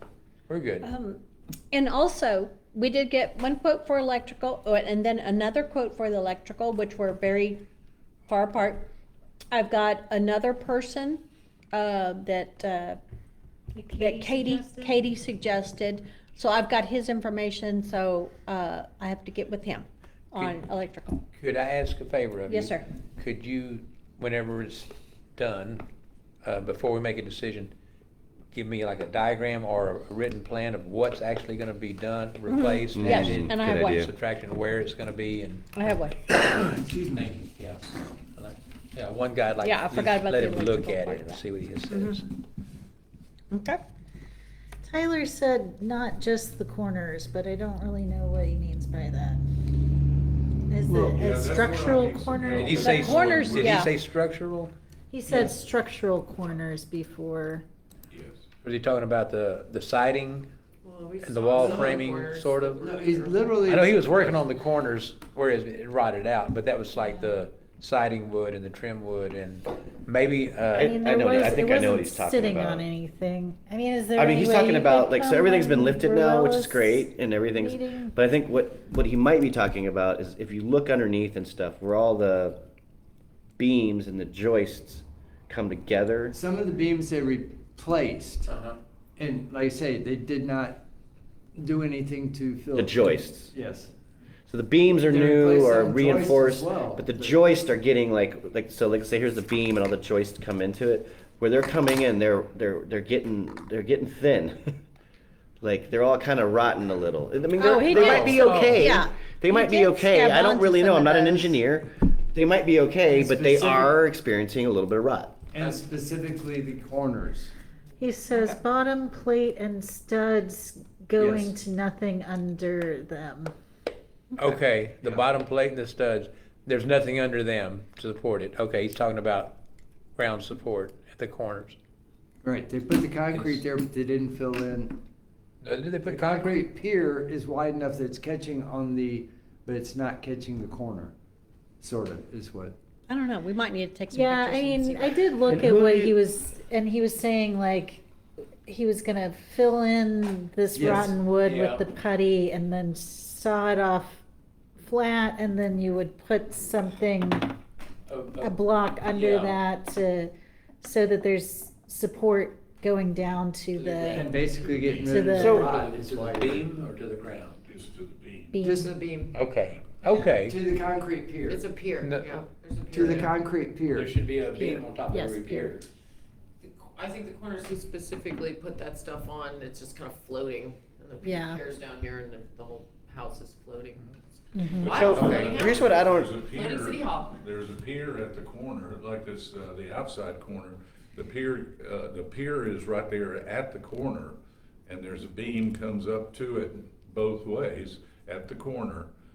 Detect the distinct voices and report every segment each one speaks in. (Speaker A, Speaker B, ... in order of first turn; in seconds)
Speaker A: 0.5-0.9, 20.4-20.6, 21.3-25.8, 26.4-27.7, 28.5-36.6, 37.1-42.3, 52.5-54.7, 58.6-60.5, 61.2-62.8, 63.6-71.0, 107.9-108.9, 124.3-129.6, 130.2-131.8, 133.3-133.6, 135.6-136.6, 151.4-151.8, 158.1-159.6, 163.8-164.4, 165.3-167.6, 169.3-170.6, 172.0-172.4, 173.9-175.8
Speaker B: 0.8-1.2, 1.7-7.6, 8.3-8.9, 9.5-13.0, 14.0-21.2, 22.5-22.9, 32.5-34.0, 35.7-36.3, 39.6-42.1, 43.5-43.8, 52.8-53.9, 107.6-109.1, 110.1-111.2, 143.1-145.5
Speaker C: 13.8-15.0, 44.9-49.4, 50.7-53.1, 55.1-57.6, 70.8-78.1, 111.2-111.5, 118.0-123.5, 144.1-148.0, 148.7-154.2, 154.8-157.5, 158.4-164.3, 165.1-165.7, 168.5-168.9, 175.1-175.7, 181.2-181.6, 184.5-185.1
Speaker D: 33.0-34.1, 70.7-72.9, 74.1-82.6, 83.6-86.3, 92.7-93.5, 94.5-104.6, 105.6-115.3, 184.9-186.3
Speaker E: 36.3-37.3, 62.8-64.2, 86.3-88.6, 89.2-90.8, 91.5-93.9, 95.0-97.4, 113.1-114.0, 115.5-117.5, 121.2-121.5, 132.4-135.0, 136.1-141.1, 141.8-142.8, 145.5-146.1, 150.7-151.2, 164.1-166.7, 168.6-169.1, 170.2-171.6, 172.9-174.8
Speaker F: 50.8-53.9, 58.1-58.4, 164.1-165.7, 167.6-168.6, 184.8-199.1
Speaker G: 60.8-64.0, 168.9-169.3, 171.5-173.4, 176.6-184.1, 184.8-187.4